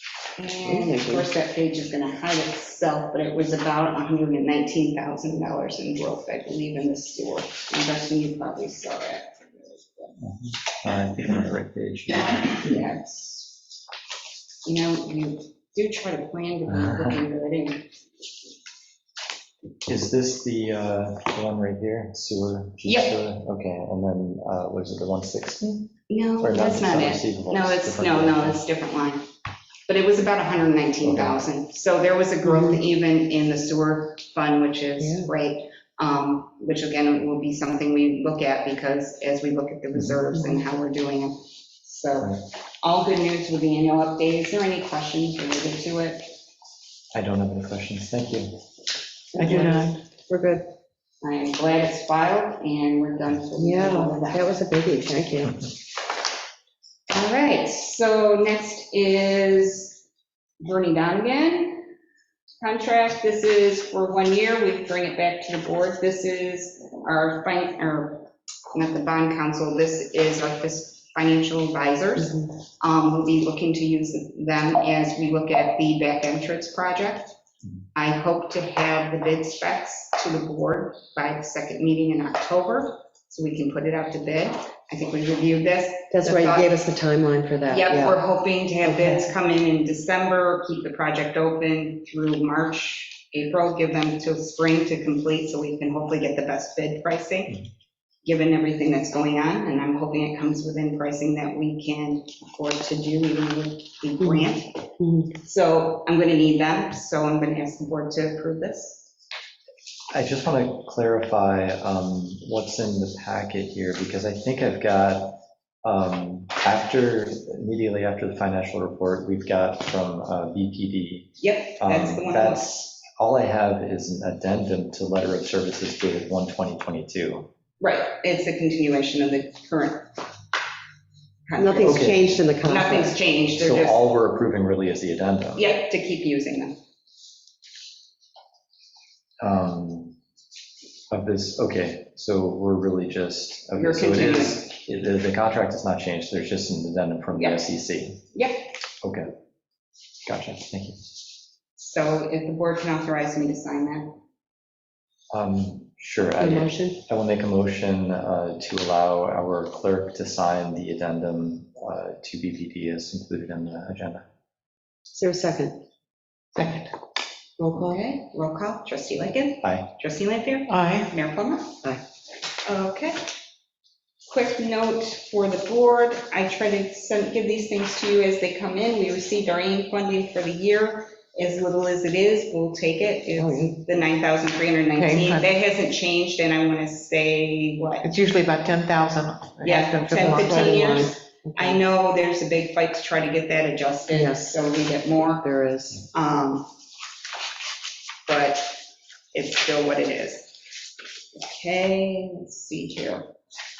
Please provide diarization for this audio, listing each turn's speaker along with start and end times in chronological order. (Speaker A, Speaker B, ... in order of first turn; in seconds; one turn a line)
Speaker A: 0.4-10.2
Speaker B: 0.7-1.2
Speaker C: 10.2-12.4
Speaker A: 12.3-13.6
Speaker A: 14.6-17.9
Speaker C: 16.7-17.2
Speaker C: 19.9-28.6
Speaker A: 22.8-23.1
Speaker A: 26.1-29.3
Speaker A: 29.9-46.3
Speaker C: 31.0-31.4
Speaker B: 32.5-32.8
Speaker B: 35.0-35.3
Speaker C: 47.1-48.5
Speaker B: 49.3-50.7
Speaker D: 49.4-50.0
Speaker A: 49.4-49.8
Speaker A: 51.2-54.5
Speaker B: 53.6-55.5
Speaker A: 57.1-60.0
Speaker A: 60.6-61.9
Speaker A: 62.6-77.3
Speaker A: 77.9-86.7
Speaker B: 86.1-88.2
Speaker A: 87.7-97.6
Speaker B: 88.8-89.2
Speaker A: 98.2-109.1
Speaker B: 105.0-105.3
Speaker C: 110.1-127.5
Speaker A: 121.4-122.7
Speaker A: 127.8-130.1
Speaker A: 131.5-134.0
Speaker B: 131.6-133.2
Speaker C: 131.8-132.3
Speaker C: 133.5-135.7
Speaker A: 135.6-136.8
Speaker C: 139.4-140.1
Speaker C: 141.1-148.2
Speaker A: 143.8-144.7
Speaker A: 147.3-147.6
Speaker A: 148.3-148.7
Speaker C: 149.0-149.3
Speaker C: 150.2-151.1
Speaker A: 151.8-154.2
Speaker C: 155.3-164.2
Speaker B: 156.4-157.0
Speaker B: 165.1-165.8
Speaker D: 166.6-166.9
Speaker B: 167.6-168.0
Speaker A: 167.7-171.8
Speaker C: 169.6-169.9
Speaker D: 170.7-171.1
Speaker A: 172.6-173.2
Speaker A: 174.3-188.1
Speaker B: 183.4-183.8
Speaker D: 184.9-185.4
Speaker D: 188.0-190.8
Speaker A: 189.6-195.4
Speaker B: 190.4-191.8
Speaker B: 194.1-194.5
Speaker B: 195.3-196.0
Speaker A: 196.0-196.7
Speaker A: 198.2-198.8
Speaker A: 199.3-200.6
Speaker A: 201.3-203.3